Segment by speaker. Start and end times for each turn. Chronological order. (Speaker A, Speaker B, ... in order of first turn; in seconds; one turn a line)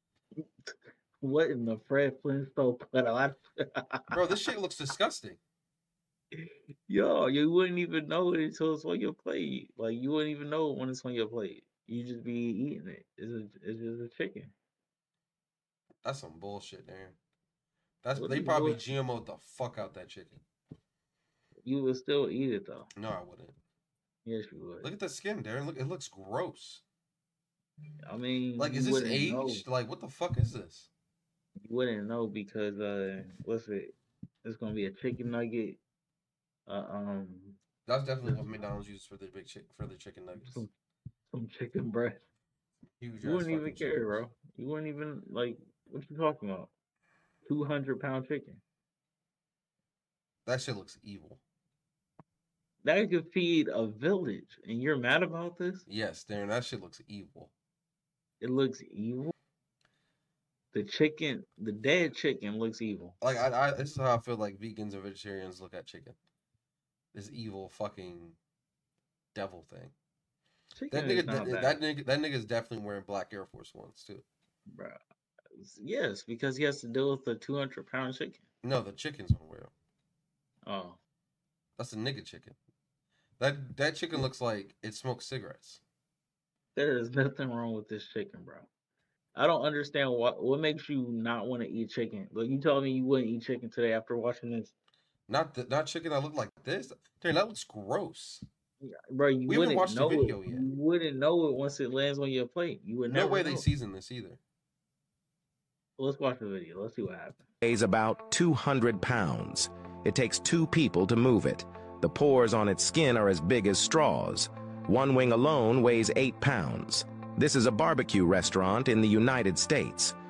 Speaker A: 0.4-4.1
Speaker B: 4.1-5.4
Speaker A: 6.3-14.5
Speaker B: 16.0-17.2
Speaker B: 18.0-20.4
Speaker A: 18.2-18.8
Speaker A: 21.6-22.9
Speaker B: 23.0-23.6
Speaker A: 24.2-24.9
Speaker B: 24.8-26.8
Speaker A: 28.0-29.6
Speaker B: 28.6-30.9
Speaker A: 31.6-35.8
Speaker A: 36.7-37.6
Speaker B: 37.9-40.7
Speaker A: 38.2-38.6
Speaker A: 40.4-40.7
Speaker A: 41.3-42.2
Speaker B: 43.0-44.2
Speaker A: 43.2-46.7
Speaker A: 47.5-48.6
Speaker B: 50.5-51.4
Speaker A: 52.8-55.9
Speaker B: 55.9-57.5
Speaker A: 58.4-59.3
Speaker A: 60.7-63.2
Speaker B: 63.2-66.2
Speaker B: 67.1-68.4
Speaker B: 69.3-69.9
Speaker A: 70.8-71.8
Speaker B: 70.9-74.2
Speaker A: 74.7-75.0
Speaker A: 75.5-78.5
Speaker B: 78.6-79.7
Speaker A: 80.7-81.0
Speaker B: 81.8-82.6
Speaker B: 83.4-85.8
Speaker A: 86.8-88.7
Speaker A: 89.3-94.7
Speaker B: 95.3-98.5
Speaker A: 98.8-103.7
Speaker B: 99.5-100.7
Speaker B: 103.1-104.4
Speaker A: 106.0-107.4
Speaker C: 107.6-120.2